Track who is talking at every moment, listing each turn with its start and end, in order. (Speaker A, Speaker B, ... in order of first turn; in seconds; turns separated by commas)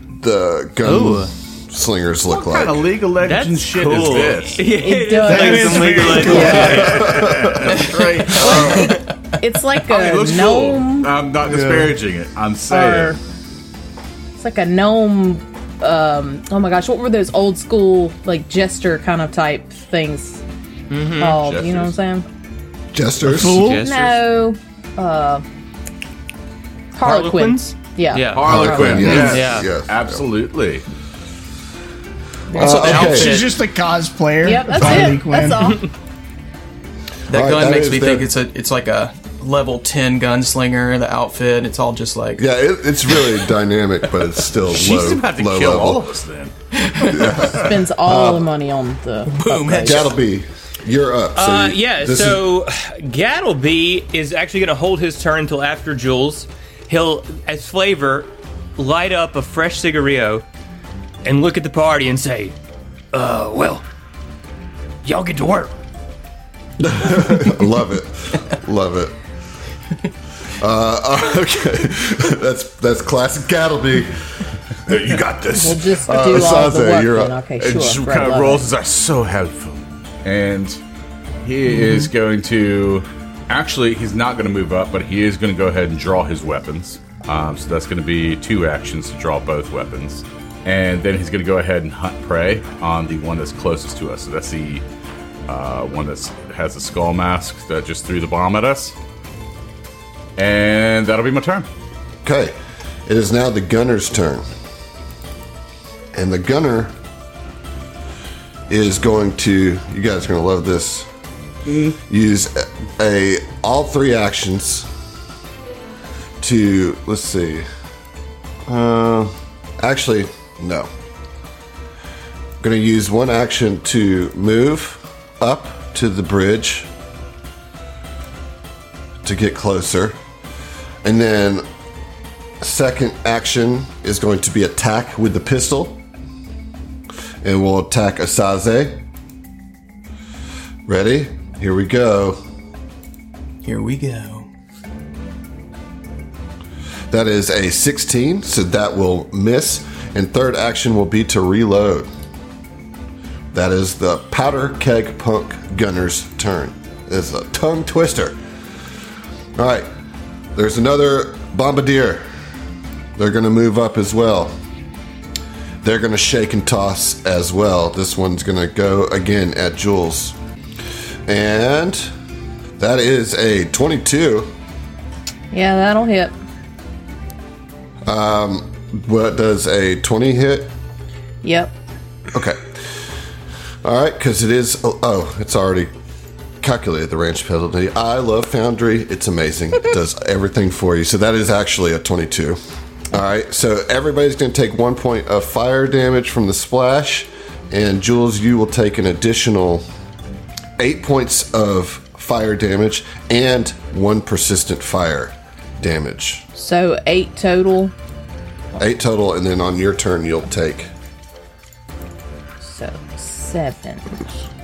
Speaker A: 0.2-2.9, Speaker B: 0.8-1.3, Speaker C: 2.3-4.7, Speaker B: 3.2-7.3, Speaker D: 4.7-7.0, Speaker E: 5.2-6.9, Speaker C: 6.5-9.0, Speaker A: 6.7-7.8, Speaker D: 8.3-11.1, Speaker C: 9.8-13.2, Speaker D: 12.7-13.2, Speaker D: 14.4-20.4, Speaker B: 20.9-21.4, Speaker D: 21.2-22.2, Speaker C: 21.4-21.9, Speaker A: 22.9-23.7, Speaker E: 23.3-23.9, Speaker B: 23.4-24.2, Speaker D: 23.8-25.4, Speaker D: 26.9-29.4, Speaker B: 27.0-29.7, Speaker C: 28.3-30.8, Speaker A: 28.4-30.2, Speaker D: 32.5-32.8, Speaker A: 32.5-33.5, Speaker F: 32.5-33.5, Speaker E: 32.6-35.8, Speaker D: 34.4-35.9, Speaker F: 37.3-42.5, Speaker A: 37.3-38.3, Speaker A: 42.4-46.1, Speaker F: 43.1-43.5, Speaker C: 44.7-47.8, Speaker F: 46.8-47.3, Speaker A: 47.1-48.5, Speaker D: 47.4-50.1, Speaker F: 49.3-50.1, Speaker A: 49.8-52.4, Speaker B: 51.4-60.5, Speaker B: 61.2-62.5, Speaker B: 63.1-63.9, Speaker B: 65.0-65.7, Speaker A: 66.8-69.2, Speaker A: 70.6-77.4, Speaker D: 75.5-78.7, Speaker C: 77.6-80.8, Speaker C: 81.4-94.8, Speaker C: 95.5-98.9, Speaker C: 100.4-101.7, Speaker A: 102.2-102.5, Speaker A: 103.1-104.5, Speaker A: 106.1-107.0, Speaker A: 108.7-111.1, Speaker C: 111.7-112.0, Speaker A: 111.9-114.9, Speaker A: 116.4-117.7, Speaker A: 118.7-120.9, Speaker A: 122.6-126.9, Speaker A: 129.2-130.2, Speaker A: 131.0-131.7, Speaker A: 132.6-136.0, Speaker A: 137.4-139.0, Speaker A: 140.9-142.4, Speaker F: 143.7-144.5, Speaker A: 147.1-152.1, Speaker A: 153.5-158.4, Speaker A: 159.6-159.9, Speaker A: 160.6-162.2, Speaker A: 163.2-164.6, Speaker A: 165.8-170.4, Speaker A: 171.3-172.1, Speaker A: 172.8-174.5, Speaker D: 175.5-176.3, Speaker A: 178.1-180.7, Speaker D: 181.4-181.7, Speaker A: 182.3-182.7, Speaker A: 183.8-185.9, Speaker A: 186.6-192.6, Speaker A: 193.1-199.8, Speaker A: 200.8-206.5, Speaker D: 206.6-207.9, Speaker A: 208.8-210.9, Speaker D: 212.6-214.2